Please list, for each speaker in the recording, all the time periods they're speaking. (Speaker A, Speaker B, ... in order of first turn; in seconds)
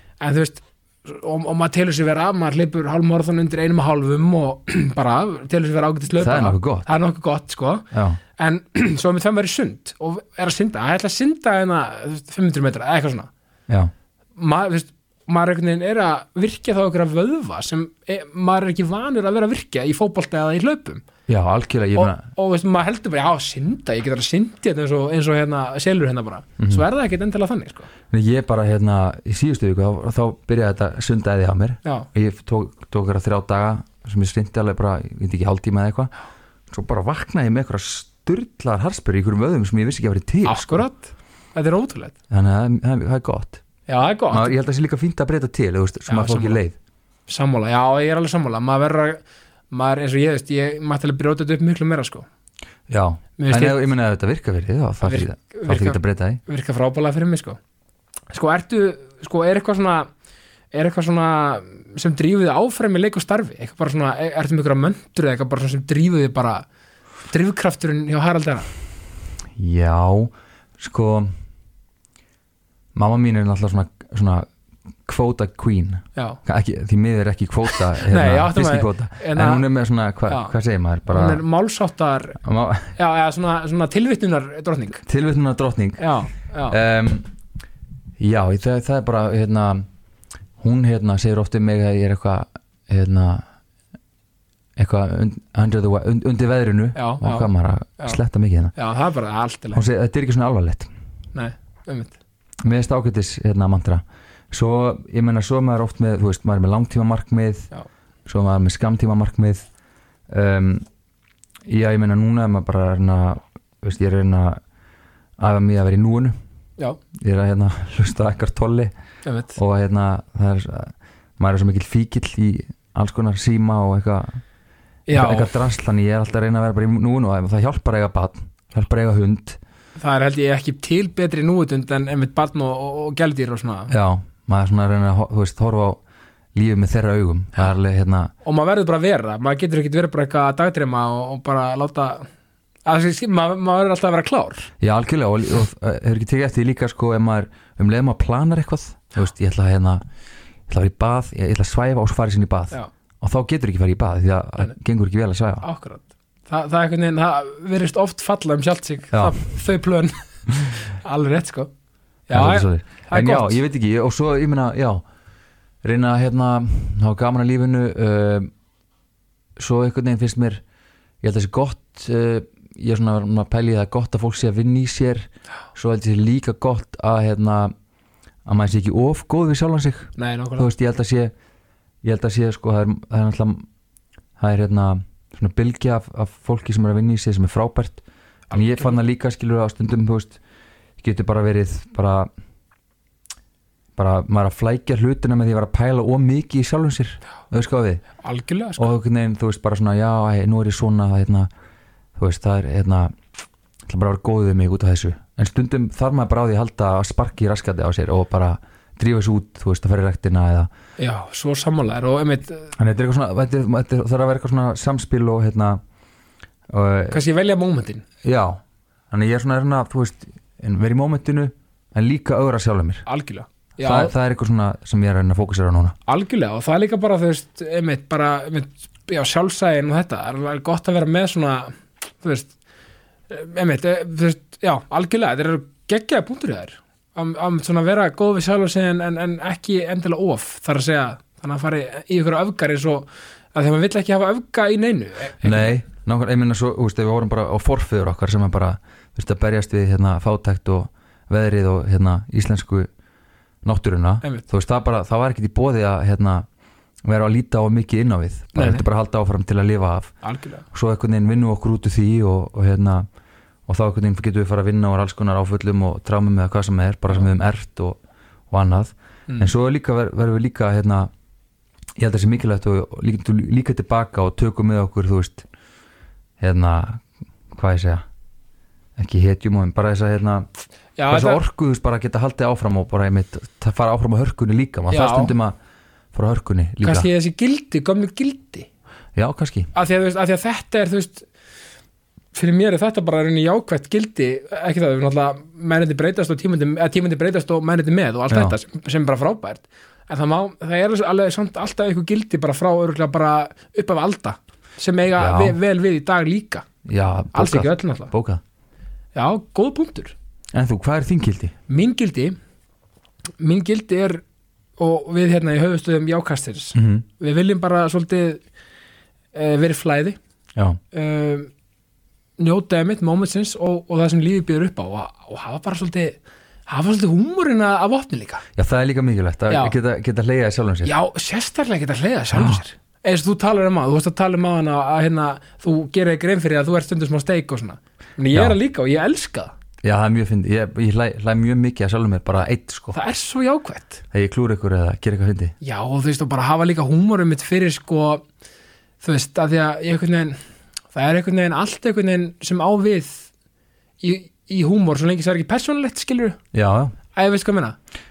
Speaker A: 0.2-13.3, 14.4-21.0, 21.9-27.9, 40.5-42.1, 43.9-44.5, 46.1-46.6, 47.3-52.3, 53.4-53.9, 55.0-57.6, 58.3-60.1, 60.7-66.7, 67.3-68.7, 78.0-79.7, 80.3-80.5, 81.1-82.4, 83.0-85.0, 86.0-86.8, 97.0-97.5, 98.8-99.8, 101.3-102.2, 119.2-119.6, 125.1-125.6, 130.0-133.9, 138.4-142.3, 142.9-144.7, 155.6-160.2, 160.7-161.7, 162.3-163.6, 180.2-180.7, 188.5-188.9, 198.2-198.9, 211.0-212.7, 217.1-218.0, 223.1-224.1, 226.1-232.5, 233.3-245.7, 258.5-258.8, 260.2-260.6, 269.3-269.5, 281.0-281.4, 284.9-285.4, 286.8-288.7, 289.7-291.3, 292.3-306.7, 307.3-308.1, 309.1-310.1, 311.7-312.4, 313.4-314.2, 314.8-318.4, 319.3-320.2, 320.9-321.5, 322.4-328.4, 329.5-329.8, 330.8-339.6, 342.9-344.0, 345.6-348.2, 349.0-350.4, 350.9-353.3, 354.0-356.4, 357.1-357.8
Speaker B: 6.2-6.9, 7.9-8.2, 21.3-22.2, 28.1-36.1, 36.7-40.9, 42.3-43.6, 44.3-46.8, 52.9-56.4, 69.6-71.3, 73.0-74.5, 75.1-81.4, 82.4-82.9, 85.1-86.0, 86.7-87.3, 88.2-89.9, 90.6-93.5, 94.8-98.8, 99.7-100.9, 102.6-107.7, 108.3-109.7, 110.3-110.9, 111.7-114.6, 115.4-116.3, 117.2-118.9, 119.5-124.4, 125.1-129.6, 133.9-136.0, 136.6-138.3, 144.8-150.0, 150.7-155.7, 159.1-159.4, 162.3-165.0, 165.8-168.5, 169.6-170.6, 171.2-177.7, 178.5-181.3, 182.0-183.7, 184.4-190.4, 191.0-192.3, 194.0-198.1, 198.8-201.5, 202.2-203.2, 203.9-210.7, 212.8-215.8, 216.7-217.2, 218.2-218.6, 219.1-223.1, 223.8-225.9, 245.4-252.9, 253.6-256.5, 257.1-260.1, 260.7-263.1, 263.7-268.0, 268.5-271.1, 272.0-275.5, 276.4-278.0, 279.0-280.5, 281.1-285.6, 286.1-287.1, 289.1-289.7, 298.3-298.6, 305.2-305.6, 306.9-308.4, 310.5-311.6, 316.8-317.1, 328.6-330.9, 332.3-332.6, 339.8-343.0, 344.1-345.6, 356.5-356.9